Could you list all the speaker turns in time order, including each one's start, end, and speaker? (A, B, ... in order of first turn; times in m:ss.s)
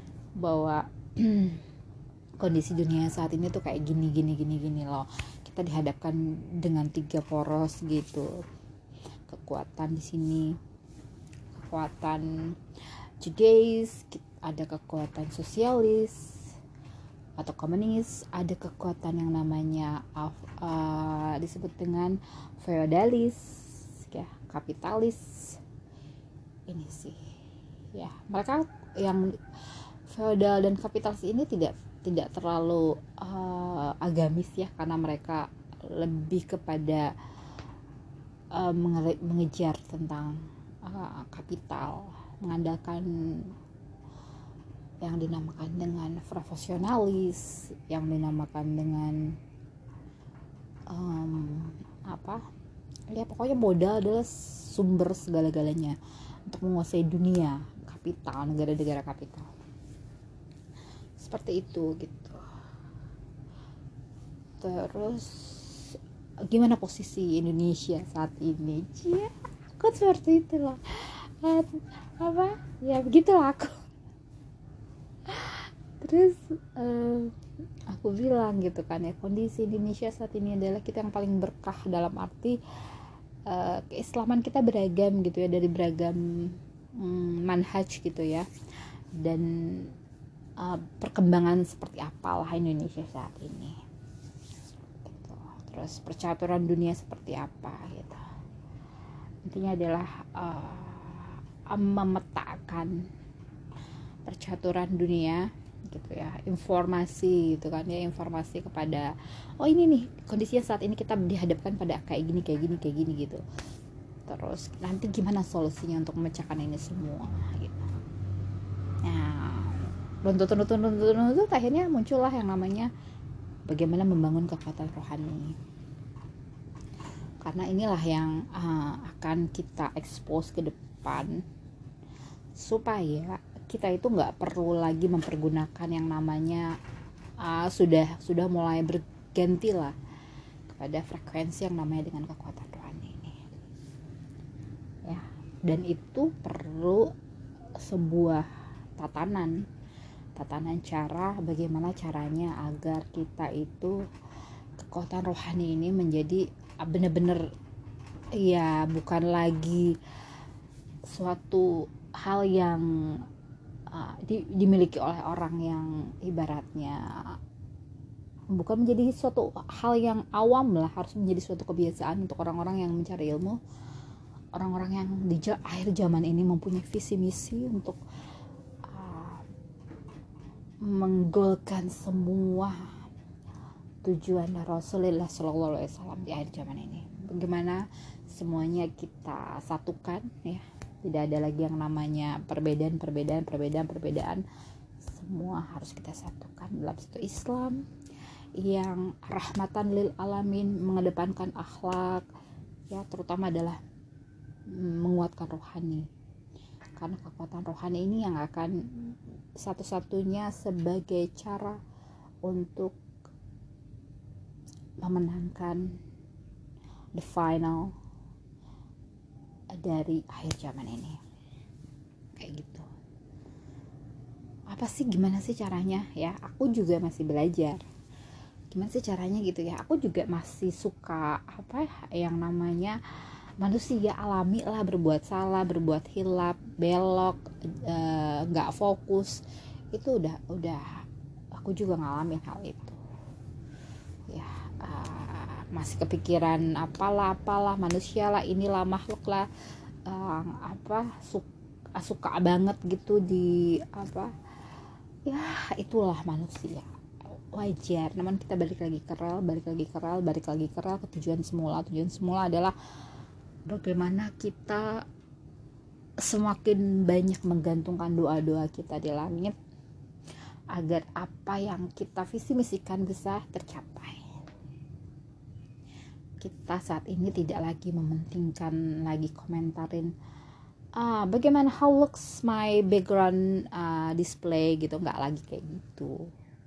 0:00.4-0:01.6 A
0:02.4-0:08.3 A
0:09.3-0:10.5 A
0:11.5-0:12.3 A
0:13.2-0:16.3 A
0:17.4-0:25.6 A
0:26.7-0:27.2 A
0:27.9-0:37.1 A
0:38.5-0:43.5 A
0:45.0-0:49.3 A
0:50.9-0:52.4 A
0:53.1-0:55.9 A
0:56.5-0:59.5 A
1:01.2-1:02.4 A
1:04.6-1:06.0 A
1:06.5-1:13.8 A
1:15.2-1:17.3 A
1:17.9-1:22.6 A
1:23.5-1:28.5 A
1:29.2-1:29.9 A
1:30.6-1:33.8 A
1:34.9-1:38.2 A
1:39.4-1:43.1 A
1:44.2-1:53.4 A
1:54.3-1:57.9 A
1:59.0-2:02.9 A
2:03.7-2:05.6 A
2:07.4-2:11.4 A
2:12.6-2:16.7 A
2:17.4-2:19.9 A
2:20.7-2:23.6 A
2:25.0-2:27.1 A
2:27.8-2:28.4 A
2:29.0-2:29.6 A
2:30.4-2:34.0 A
2:34.8-2:37.4 A
2:38.4-2:40.0 A
2:41.1-2:43.2 A
2:43.9-2:47.4 A
2:48.5-2:53.6 A
2:54.5-2:58.0 A
2:58.9-2:59.4 A
3:00.8-3:02.8 A
3:04.0-3:14.4 A
3:15.1-3:17.8 A
3:18.6-3:22.2 A
3:22.9-3:23.8 A
3:24.7-3:26.1 A
3:27.0-3:31.8 A
3:32.4-3:32.9 A
3:35.0-3:35.8 A
3:37.1-3:37.9 A
3:39.7-3:41.2 A
3:42.3-3:42.9 A
3:44.7-3:47.8 A
3:48.7-3:53.0 A
3:53.6-3:59.4 A
3:59.9-4:00.8 A
4:01.5-4:03.0 A
4:04.3-4:09.5 A
4:10.0-4:14.3 A
4:15.3-4:22.7 A
4:23.7-4:25.0 A
4:26.2-4:29.6 A
4:30.7-4:34.2 A
4:36.4-4:40.1 A
4:41.0-4:46.2 A